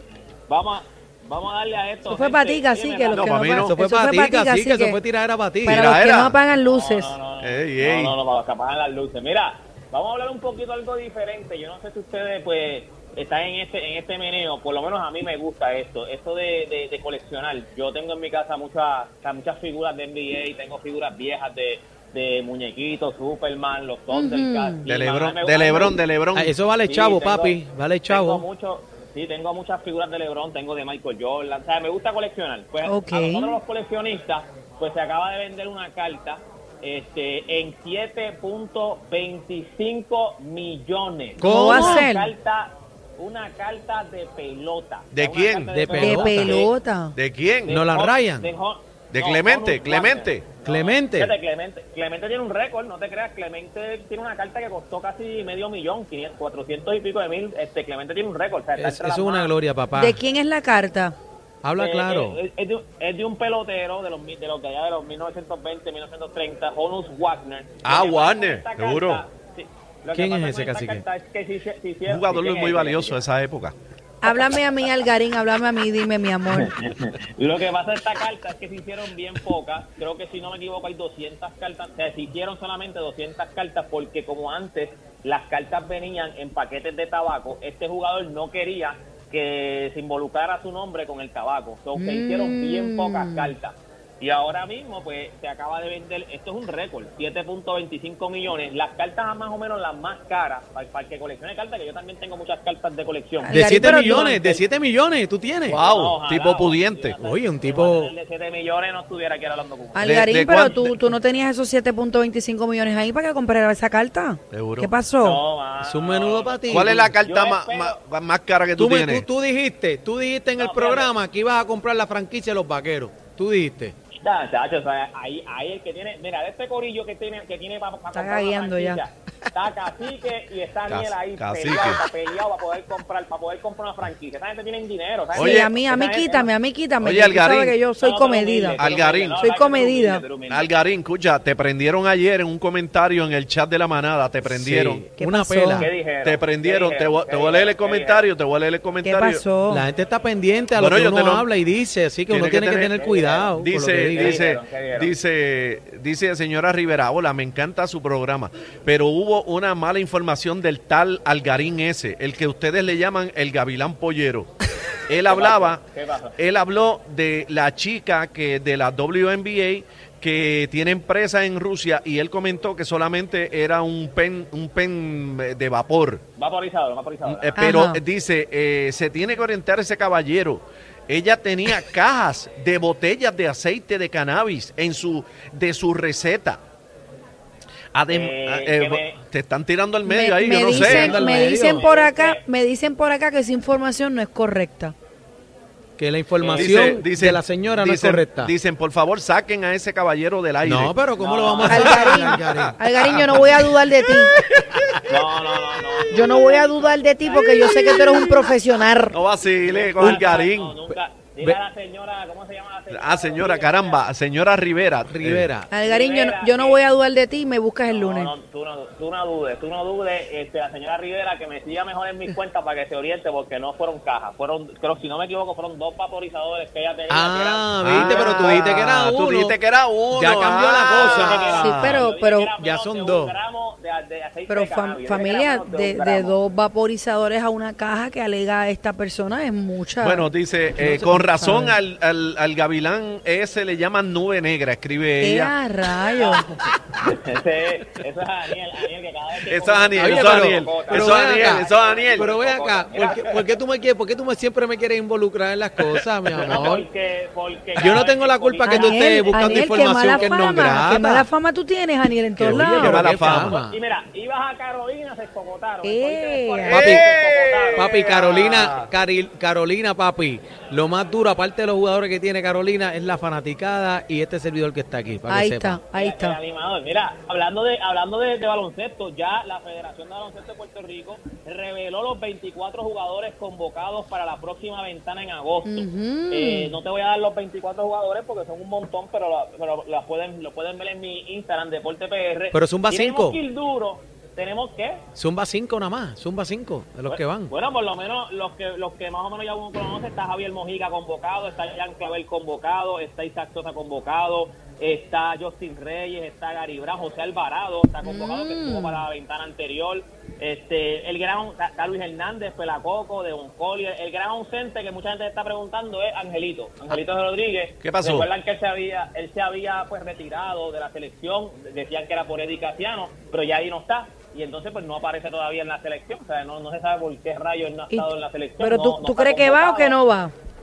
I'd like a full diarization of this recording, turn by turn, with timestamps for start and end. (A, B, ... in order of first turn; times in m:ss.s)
0:00.5-0:03.6 A
0:02.0-0:05.0 B
0:03.1-0:03.8 C
0:03.7-0:05.9 D
0:05.6-0:07.2 B
0:05.6-0:06.4 C
0:06.6-0:26.0 A
0:07.4-0:08.2 C
0:24.1-0:24.8 B
0:24.9-0:26.5 C
0:26.3-0:28.4 D
0:26.8-0:46.7 A
0:32.8-0:33.6 B
0:41.4-0:42.1 D
0:41.4-0:42.3 B
0:45.1-0:45.8 C
0:45.8-0:46.6 D
0:46.0-0:47.2 B
0:47.1-0:47.8 C
0:47.7-0:59.5 A
0:47.7-0:48.5 D
0:49.1-0:50.5 C
0:50.6-0:51.3 D
0:58.8-1:00.2 D
0:59.9-1:01.2 B
1:01.6-1:02.4 D
1:01.8-1:13.2 A
1:07.8-1:09.2 C
1:10.1-1:11.0 D
1:12.0-1:13.7 C
1:14.2-1:16.7 B
1:14.3-1:14.5 A
1:16.5-1:44.4 A
1:31.9-1:33.5 B
1:43.4-1:44.6 B
1:43.5-1:45.8 D
1:45.7-1:47.2 C
1:45.7-1:50.2 A
1:47.2-1:48.1 D
1:50.0-1:55.4 B
1:50.0-1:51.0 C
1:54.5-1:54.9 C
1:55.2-1:58.0 A
1:55.8-1:57.1 D
1:56.7-1:59.2 C
1:58.8-2:03.9 D
2:00.6-2:01.1 A
2:04.2-2:16.5 A
2:08.1-2:09.0 B
2:10.9-2:12.0 C
2:15.3-2:15.7 C
2:15.3-2:20.2 B
2:17.0-2:17.8 C
2:18.0-2:20.7 A
2:18.8-2:19.4 C
2:20.4-2:25.0 C
2:24.4-2:25.9 D
2:25.1-2:25.9 B
2:25.8-2:28.2 A
2:26.2-2:29.4 C
2:29.0-2:29.8 B
2:29.7-2:34.5 D
2:30.8-2:31.5 C
2:32.3-2:33.0 C
2:32.8-2:33.5 A
2:33.5-2:44.5 C
2:34.1-2:35.1 A
2:45.1-2:45.8 C
2:45.2-2:46.4 A
2:46.4-2:56.2 C
2:56.4-2:57.6 A
2:57.2-3:06.6 C
2:57.6-2:58.0 B
3:07.9-3:11.2 C
3:08.1-3:09.2 A
3:10.0-3:14.9 B
3:10.6-3:11.9 D
3:11.0-3:12.4 A
3:16.0-3:18.5 D
3:16.4-3:17.0 A
3:16.5-3:20.9 C
3:20.6-3:23.6 D
3:21.2-3:22.4 A
3:21.6-3:24.4 B
3:22.4-3:25.0 C
3:25.1-3:28.0 A
3:26.1-3:29.2 B
3:27.3-3:28.5 C
3:29.1-3:30.8 C
3:29.7-3:34.0 A
3:32.9-3:35.5 C
3:35.1-3:35.7 D
3:35.7-3:38.3 B
3:35.8-3:36.8 A
3:37.9-3:48.7 A
3:47.1-3:49.6 D
3:47.8-3:52.0 C
3:50.1-3:51.6 D
3:50.8-3:56.4 A
3:51.4-3:52.5 B
3:52.6-3:53.3 D
3:54.5-4:00.3 B
4:00.0-4:05.5 C
4:00.8-4:01.7 B
4:00.8-4:01.2 D
4:05.2-4:06.4 B
4:06.1-4:06.4 A
4:07.0-4:13.4 A
4:09.5-4:12.3 C
4:09.9-4:16.8 D
4:15.9-4:16.7 C
4:16.4-4:20.7 A
4:17.8-4:21.3 D
4:18.6-4:23.1 B
4:22.4-4:23.7 D
4:22.7-4:23.6 C
4:23.1-4:27.9 A
4:25.8-4:26.8 B
4:26.7-4:27.0 D
4:26.7-4:28.9 C
4:27.8-4:35.8 D
4:35.3-4:36.4 B
4:35.9-4:55.0 A
4:45.6-4:46.8 B
4:52.5-4:53.4 D
4:55.2-4:57.5 D
4:57.1-5:30.0 A
5:08.0-5:09.0 B
5:17.8-5:18.3 C
5:27.9-5:30.3 B